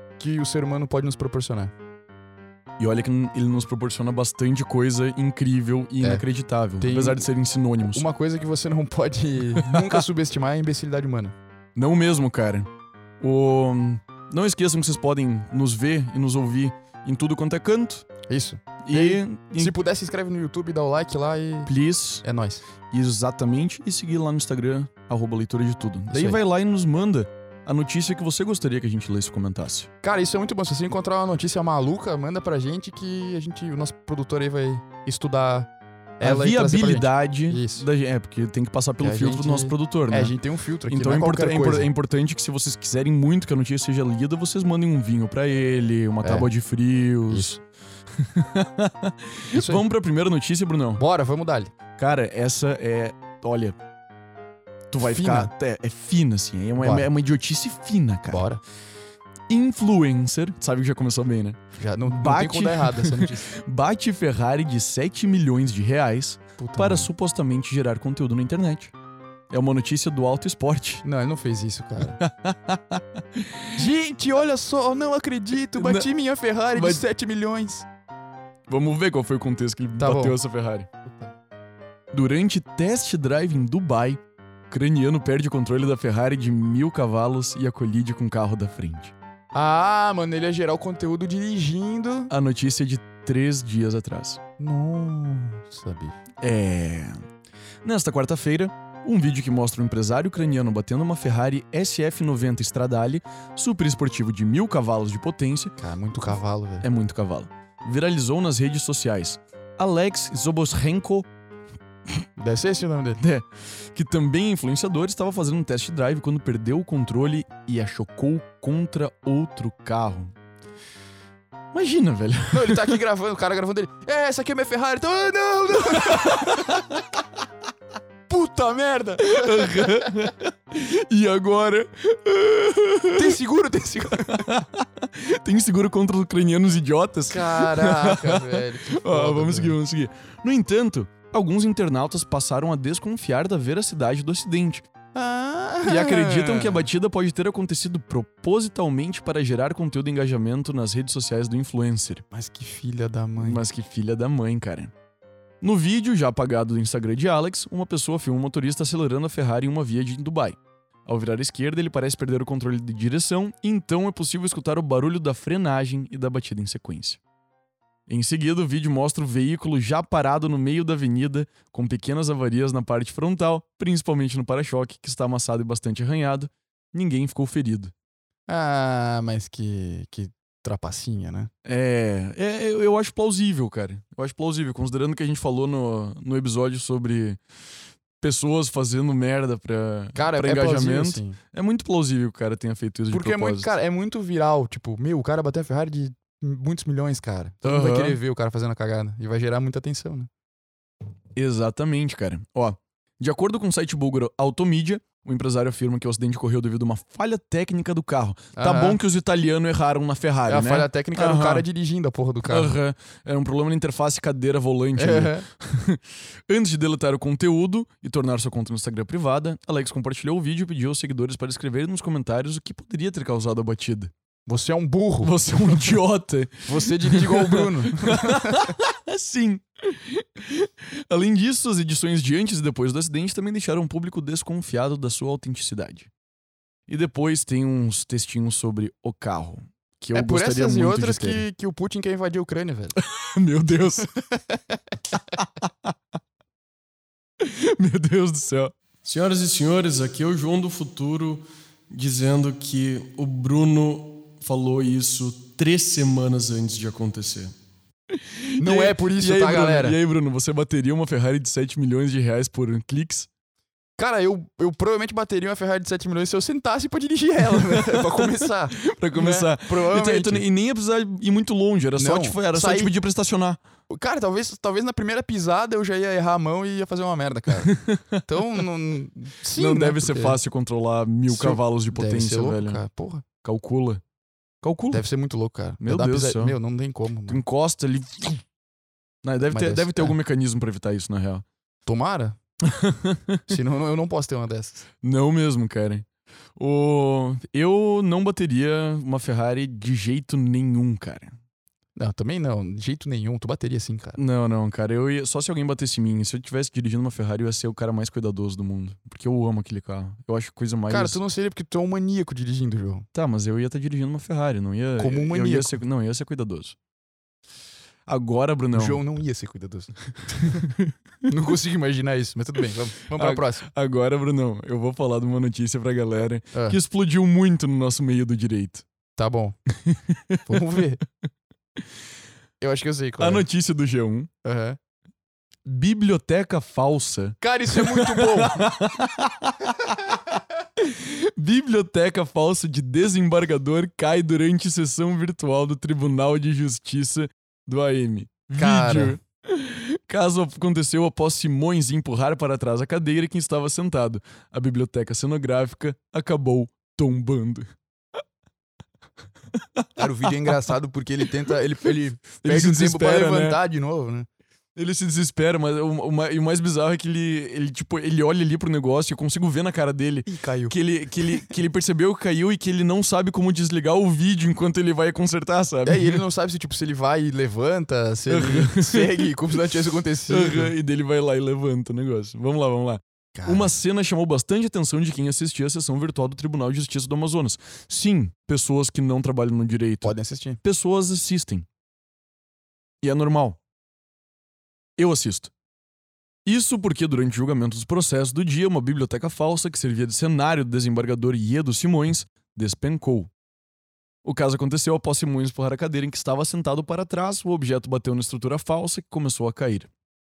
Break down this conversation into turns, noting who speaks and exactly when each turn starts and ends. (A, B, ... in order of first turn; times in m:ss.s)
0:00.2-0:01.7 A
0:02.8-0:08.0 B
0:06.8-0:07.3 A
0:07.9-0:11.4 A
0:09.6-0:10.0 B
0:11.8-0:12.7 B
0:13.2-0:18.1 B
0:18.3-0:21.7 A
0:18.9-0:19.8 B
0:21.7-0:22.2 B
0:22.2-0:22.6 A
0:22.9-0:29.9 B
0:26.1-0:26.4 A
0:30.0-0:37.9 A
0:36.2-0:40.3 B
0:39.0-0:41.9 A
0:40.9-0:47.6 B
0:46.2-0:46.5 A
0:47.3-0:47.6 A
0:48.2-0:51.0 B
0:49.5-0:49.8 A
0:51.0-0:51.7 A
0:52.0-0:53.8 B
0:54.9-0:58.4 B
0:55.0-0:55.5 A
0:56.8-0:57.1 A
0:58.3-0:58.6 A
0:59.5-1:08.9 B
1:01.8-1:03.5 A
1:06.6-1:07.1 A
1:09.5-1:11.0 B
1:11.0-1:12.2 A
1:12.2-1:13.8 B
1:13.8-1:17.9 A
1:15.8-1:16.1 B
1:16.8-1:17.0 B
1:18.7-1:20.9 B
1:20.0-1:20.4 A
1:22.1-1:29.1 B
1:29.5-1:32.3 A
1:32.3-1:34.4 B
1:34.6-1:36.2 A
1:36.4-1:37.2 B
1:37.8-1:45.7 B
1:45.8-1:46.9 A
1:46.8-1:51.3 B
1:52.4-1:53.2 A
1:53.2-2:00.3 B
2:01.7-2:03.0 B
2:02.5-2:06.8 A
2:05.9-2:07.0 B
2:08.3-2:10.1 A
2:09.2-2:13.4 B
2:13.1-2:14.5 A
2:14.3-2:24.8 B
2:17.3-2:19.8 A
2:25.1-2:26.9 A
2:25.8-2:32.2 B
2:32.3-2:33.6 A
2:33.4-2:34.9 B
2:35.6-2:47.2 B
2:48.1-2:57.9 B
2:58.5-3:01.5 A
3:01.6-3:07.4 B
3:08.2-3:13.7 B
3:10.2-3:11.4 A
3:13.1-3:20.3 A
3:17.6-3:18.2 B
3:21.4-3:31.7 B
3:28.6-3:29.0 A
3:30.5-3:32.8 A
3:32.5-3:44.1 B
3:35.0-3:35.5 A
3:44.5-3:46.0 A
3:45.2-3:56.1 B
3:46.7-3:48.7 A
3:56.9-4:01.4 B
4:00.1-4:03.0 A
4:03.0-4:04.1 B
4:04.2-4:04.6 A
4:05.3-4:05.9 B
4:07.4-4:17.5 B
4:18.2-4:23.3 B
4:18.6-4:20.0 A
4:24.0-4:30.5 A
4:27.4-4:33.6 B
4:32.0-4:32.9 A
4:33.9-4:40.4 A
4:37.6-4:38.2 B
4:39.5-4:42.8 B
4:41.3-4:43.2 A
4:43.4-4:44.0 B
4:44.6-4:45.0 B
4:44.9-4:47.4 A
4:45.8-4:46.6 B
4:47.3-4:48.4 B
4:49.2-4:51.4 B
4:49.4-4:50.2 A
4:51.8-4:52.4 A
4:52.7-4:53.4 B
4:53.5-4:54.8 A
4:55.0-5:01.3 B
5:02.0-5:04.2 A
5:04.2-5:11.2 B
5:10.9-5:13.1 A
5:13.1-5:16.8 B
5:15.0-5:15.8 A
5:18.1-5:19.0 B
5:18.7-5:20.7 A
5:20.4-5:20.9 B
5:21.3-5:23.7 A
5:23.2-5:28.8 B
5:26.5-5:26.8 A
5:29.2-5:29.6 A
5:29.8-5:30.5 B
5:30.5-5:31.0 A
5:32.6-5:33.4 A
5:33.2-5:34.3 B
5:34.4-5:34.8 A
5:35.7-5:40.2 B
5:37.4-5:38.7 A
5:40.8-5:57.7 B
5:48.6-5:49.2 A
6:00.0-6:04.3 A
6:02.4-6:03.6 B
6:04.8-6:16.2 B
6:10.3-6:10.8 A
6:15.9-6:20.7 A
6:18.3-6:19.3 B
6:20.3-6:31.6 B
6:23.4-6:23.7 A
6:30.0-6:30.6 A
6:33.0-6:33.6 B
6:35.0-6:35.5 B
6:36.4-6:43.3 B
6:44.2-6:49.9 B